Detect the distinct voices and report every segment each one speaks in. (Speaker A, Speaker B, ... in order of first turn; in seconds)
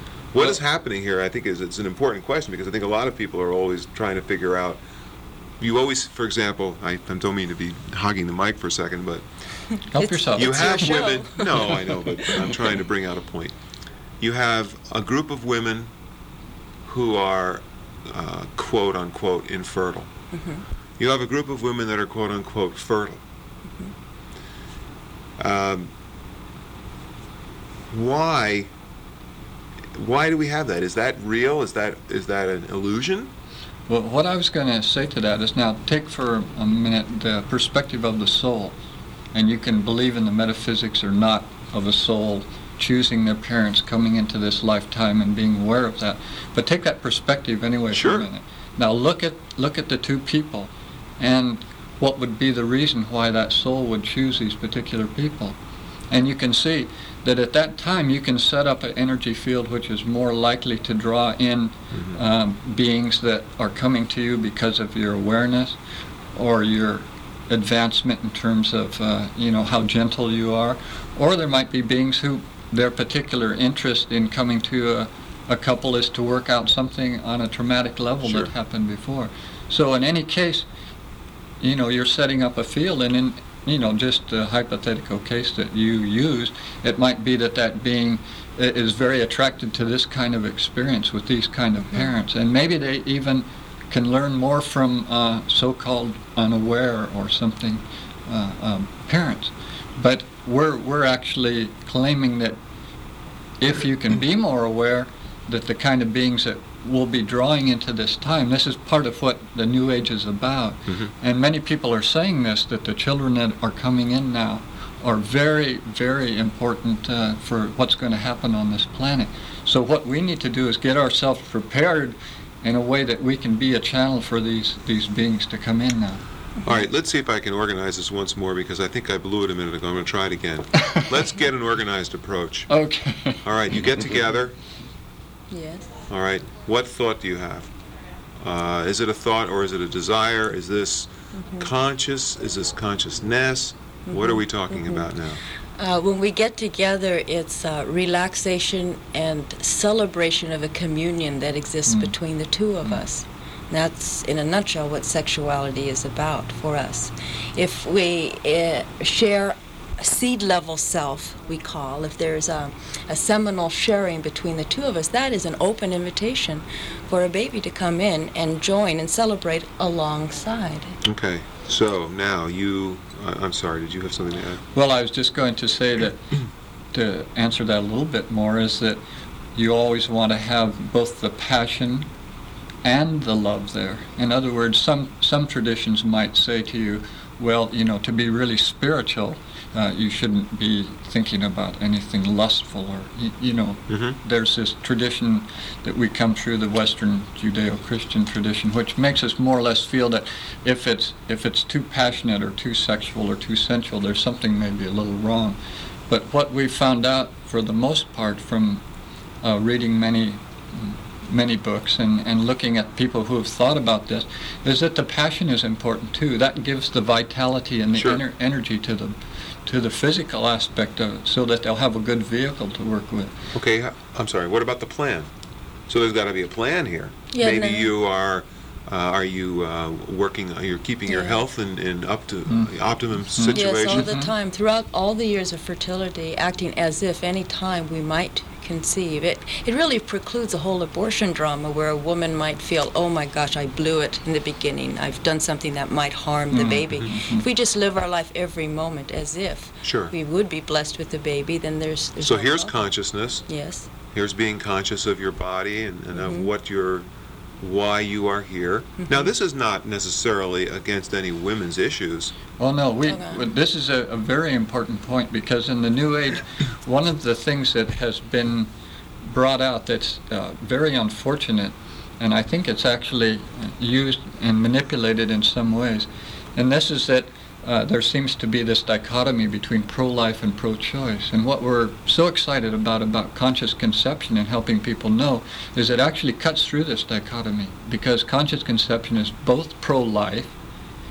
Speaker A: 0.3-4.8, 5.6-9.2, 10.3-13.5, 14.2-15.9, 16.9-20.1, 21.0-23.2, 25.4-25.9, 27.9-28.7, 29.9-33.3, 47.9-48.3, 61.9-62.2, 78.2-78.5, 126.6-132.7, 133.4-134.5, 136.1-137.7, 138.4-145.4, 171.0-174.6, 193.9-194.2, 217.9-218.2, 223.5-225.3, 225.9-234.1, 249.8-250.1, 252.2-253.5, 254.1-257.1, 257.6-262.3
Speaker B: 9.9-10.9, 33.9-38.8, 39.3-55.6, 56.1-65.8, 66.3-80.7, 81.6-102.6, 103.6-126.2, 132.7-133.4, 151.9-152.1, 174.7-176.3, 176.9-179.0, 179.5-182.1, 182.8-205.6, 206.1-208.8, 209.4-223.3, 233.3-234.3, 246.5-247.4, 262.6-268.7, 269.2-290.5
Speaker C: 9.9-12.7, 20.3-20.6, 135.5-136.0, 141.3-141.7, 144.1-145.1, 145.8-170.9, 227.3-227.9, 231.1-231.4, 233.5-252.9, 253.5-253.9, 256.1-256.5, 263.1-263.5